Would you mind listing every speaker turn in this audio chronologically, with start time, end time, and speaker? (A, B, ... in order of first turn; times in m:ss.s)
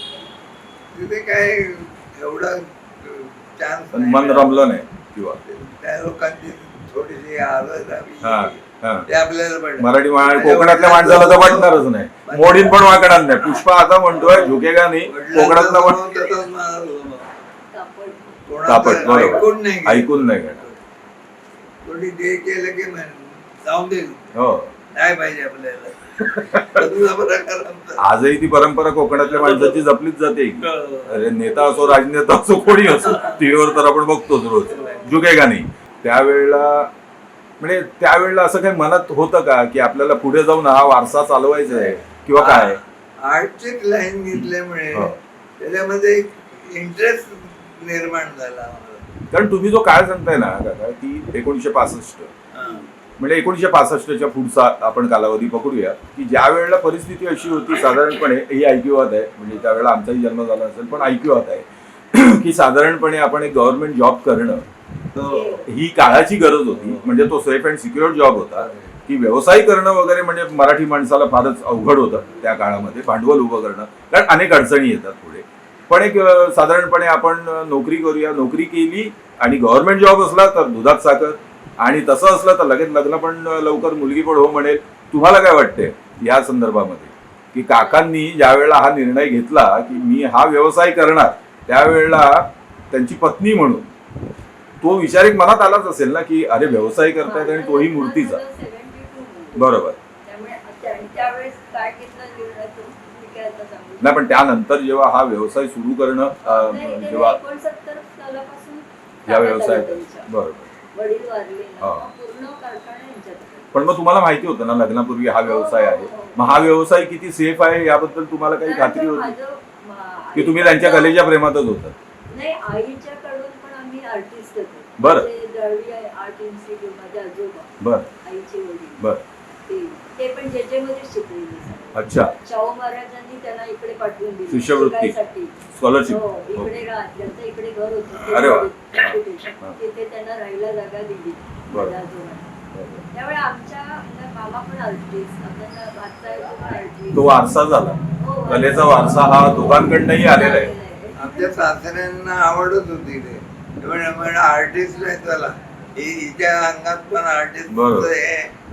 0:00.9-0:04.7 A
0:03.9-0:05.4 B
0:05.4-0:12.8 A
0:08.2-0:09.1 B
0:09.8-0:16.0 B
0:15.1-0:17.3 A
0:17.7-0:18.4 C
0:18.5-0:20.8 A
0:18.6-0:20.6 B
0:21.8-0:24.3 A
0:24.3-0:24.7 B
0:24.9-0:28.0 A
0:26.2-0:26.8 B
0:28.0-0:36.9 B
0:29.2-0:29.8 A
0:30.6-0:31.3 A
0:33.0-0:33.4 A
0:34.7-0:35.2 A
0:37.6-0:42.8 B
0:41.7-0:49.0 A
0:44.4-0:45.2 B
0:49.3-0:52.3 B
0:52.5-0:52.9 A
0:53.2-1:04.6 B
1:05.1-1:05.6 A
1:05.3-1:05.6 C
1:05.6-1:33.9 B
1:27.8-1:28.0 C
1:34.8-1:38.4 B
1:37.2-1:44.4 C
1:39.5-1:40.0 B
1:44.0-1:47.4 B
1:46.4-1:50.3 C
1:49.3-1:50.7 B
1:50.9-1:53.7 C
1:51.8-1:52.0 B
1:53.7-1:59.3 B
1:55.4-1:56.7 C
1:58.6-2:01.2 C
2:00.3-2:02.0 B
2:02.3-2:09.0 C
2:05.0-2:05.3 B
2:07.8-2:08.1 B
2:09.6-2:15.5 C
2:11.9-2:12.3 B
2:14.5-2:15.2 B
2:15.7-2:16.7 B
2:16.0-2:22.5 C
2:18.2-2:19.8 B
2:21.7-2:21.9 B
2:22.7-2:23.0 B
2:23.1-2:27.4 C
2:27.1-2:30.7 B
2:28.2-2:31.6 C
2:31.2-2:38.5 A
2:37.7-2:38.1 B